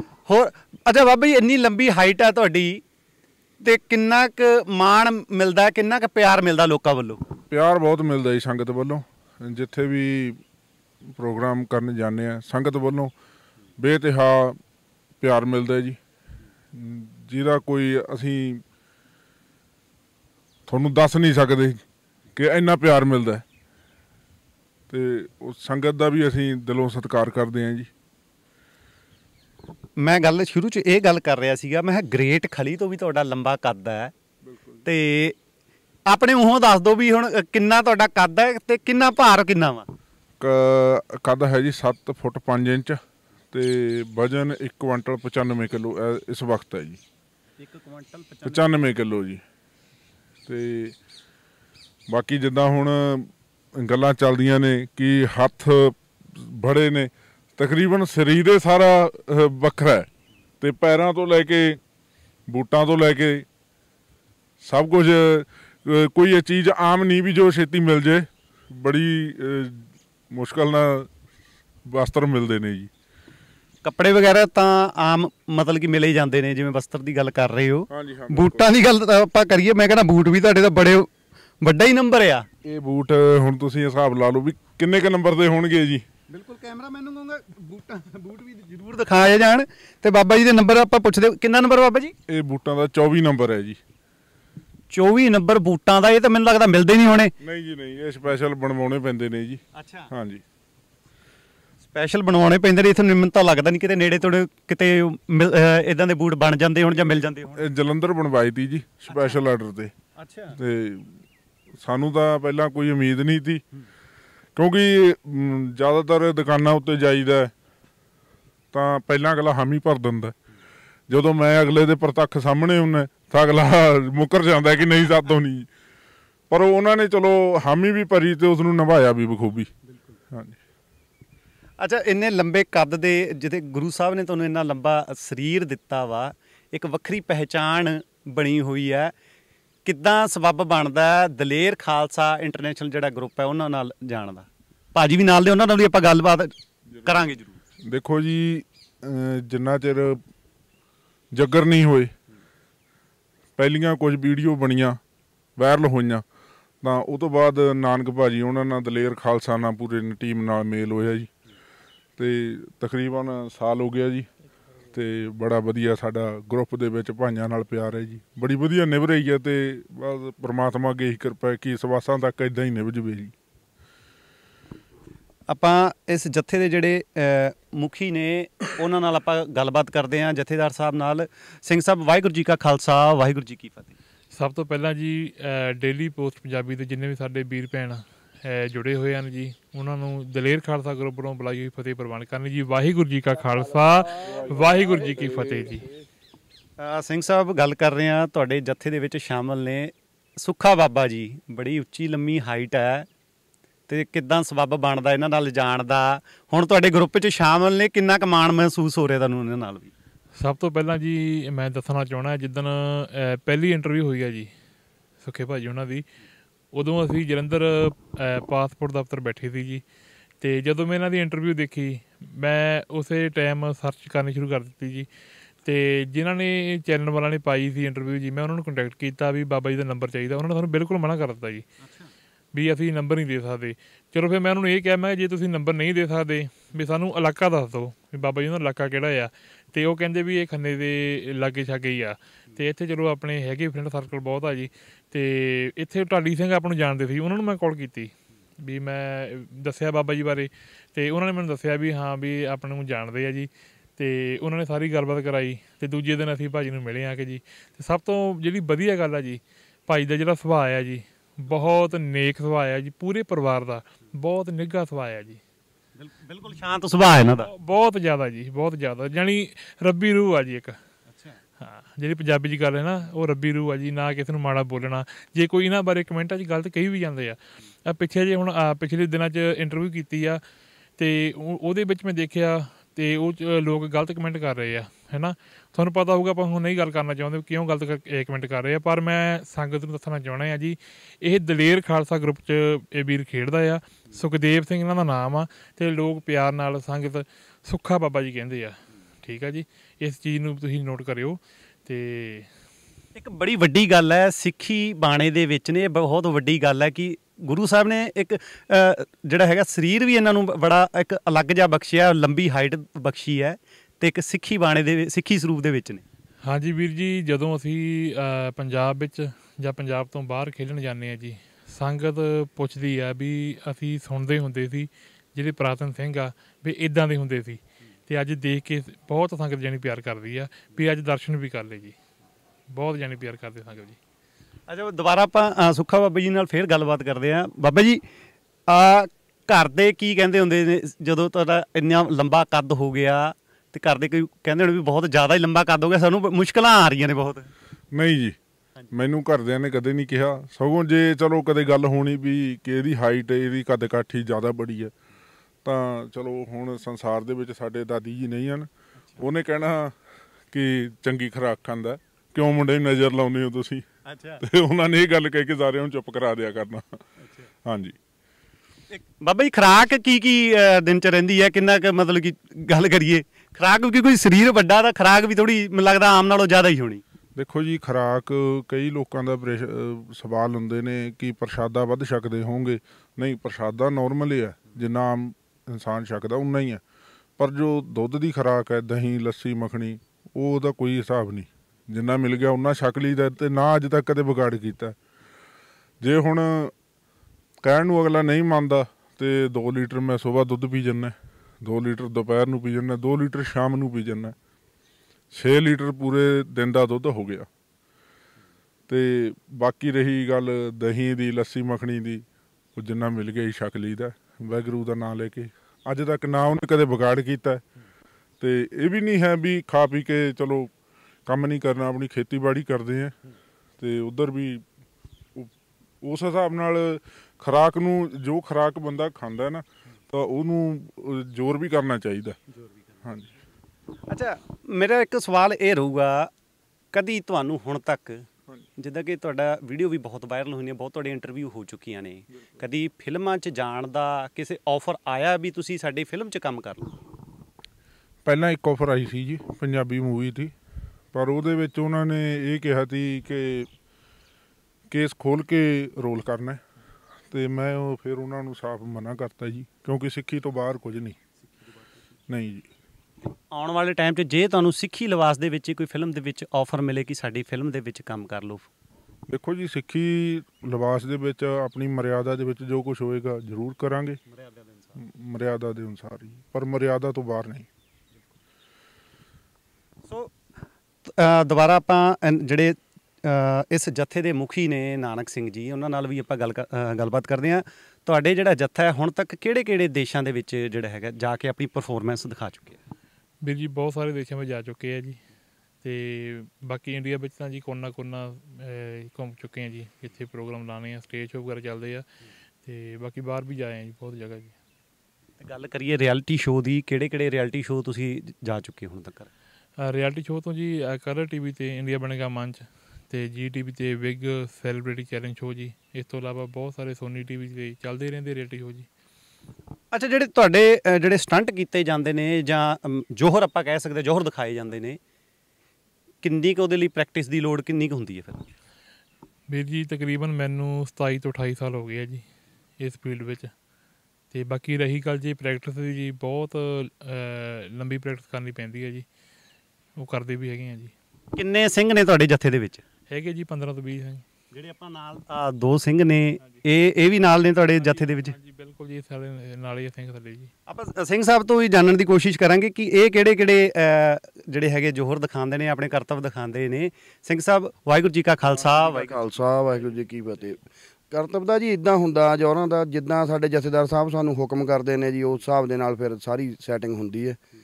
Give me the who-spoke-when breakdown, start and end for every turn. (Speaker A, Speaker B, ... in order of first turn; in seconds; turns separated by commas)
Speaker A: 0.3-2.8, Speaker A: 3.6-7.2, Speaker B: 7.5-10.4, Speaker B: 11.1-13.1, Speaker B: 13.8-14.6, Speaker B: 15.2-16.0, Speaker B: 16.7-18.6, Speaker B: 20.7-21.8, Speaker B: 22.4-23.4, Speaker B: 24.9-27.9, Speaker A: 30.0-34.1, Speaker B: 34.5-34.8, Speaker A: 34.8-35.4, Speaker A: 36.1-39.9, Speaker B: 40.4-43.0, Speaker B: 43.5-47.0, Speaker A: 47.6-48.8, Speaker B: 48.4-49.4, Speaker B: 50.5-51.0, Speaker B: 52.1-60.1, Speaker B: 60.6-61.8, Speaker B: 62.5-63.5, Speaker B: 64.6-71.1, Speaker B: 71.9-72.9, Speaker A: 73.8-82.5, Speaker B: 77.9-78.7, Speaker B: 82.6-86.0, Speaker A: 86.3-92.2, Speaker B: 92.3-93.8, Speaker A: 94.9-97.3, Speaker B: 97.4-100.4, Speaker A: 99.7-100.1, Speaker A: 101.8-107.7, Speaker B: 107.5-109.9, Speaker A: 109.1-109.4, Speaker A: 110.2-110.6, Speaker B: 110.5-111.2, Speaker B: 111.8-113.6, Speaker B: 114.6-117.5, Speaker B: 118.7-120.3, Speaker B: 121.1-125.7, Speaker B: 126.5-129.7, Speaker B: 130.3-130.6, Speaker A: 131.8-139.1, Speaker A: 139.8-147.6, Speaker B: 146.9-147.2, Speaker B: 147.8-150.2, Speaker B: 151.3-152.1, Speaker B: 153.6-155.0, Speaker B: 155.6-156.2, Speaker B: 156.8-161.3, Speaker B: 162.2-164.3, Speaker B: 164.9-173.3, Speaker A: 175.5-183.9, Speaker C: 184.3-195.9, Speaker B: 194.2-195.3, Speaker A: 196.8-203.1, Speaker A: 203.9-209.9, Speaker C: 210.4-214.5, Speaker C: 215.2-216.1, Speaker C: 216.7-219.8, Speaker C: 220.4-225.1, Speaker C: 225.7-231.7, Speaker A: 231.8-232.1, Speaker C: 232.5-265.4, Speaker A: 266.0-267.5, Speaker C: 267.4-270.8, Speaker A: 271.1-271.4, Speaker C: 271.6-280.4, Speaker C: 281.0-302.5, Speaker A: 303.1-316.0, Speaker C: 316.4-331.9, Speaker C: 332.7-334.0, Speaker A: 334.7-338.0, Speaker A: 338.7-347.5, Speaker B: 347.9-348.4, Speaker B: 348.9-354.9, Speaker B: 355.6-360.0, Speaker B: 360.5-363.9, Speaker A: 364.1-364.4, Speaker B: 364.4-367.0, Speaker A: 367.2-367.5, Speaker B: 367.6-368.0, Speaker A: 368.9-377.0, Speaker B: 377.4-386.8, Speaker B: 387.4-395.0, Speaker B: 396.0-396.7, Speaker B: 397.6-404.4, Speaker B: 405.3-407.5, Speaker B: 408.9-412.2, Speaker B: 412.8-417.6, Speaker B: 418.4-420.7, Speaker B: 421.3-423.1, Speaker B: 423.8-424.6, Speaker B: 425.4-432.4, Speaker B: 433.0-433.3, Speaker A: 434.1-436.3, Speaker A: 436.9-447.0, Speaker B: 448.2-450.5, Speaker B: 451.1-453.7, Speaker B: 454.9-456.6, Speaker B: 457.3-461.2, Speaker B: 462.3-462.7, Speaker A: 463.5-468.7, Speaker B: 469.3-474.2, Speaker A: 474.3-475.0, Speaker B: 475.0-477.7, Speaker A: 480.1-480.4, Speaker A: 481.1-492.8, Speaker C: 493.4-495.2, Speaker C: 495.8-502.1, Speaker C: 502.6-504.6, Speaker A: 505.4-509.3, Speaker C: 509.8-518.9, Speaker A: 519.9-525.0, Speaker A: 526.2-528.5, Speaker C: 529.5-532.2, Speaker C: 532.8-533.5, Speaker C: 534.3-539.0, Speaker C: 540.0-540.9, Speaker A: 541.3-542.8, Speaker C: 543.1-544.2, Speaker A: 544.5-548.4, Speaker C: 547.8-550.5, Speaker A: 550.7-559.6, Speaker D: 558.6-560.6, Speaker D: 561.1-567.4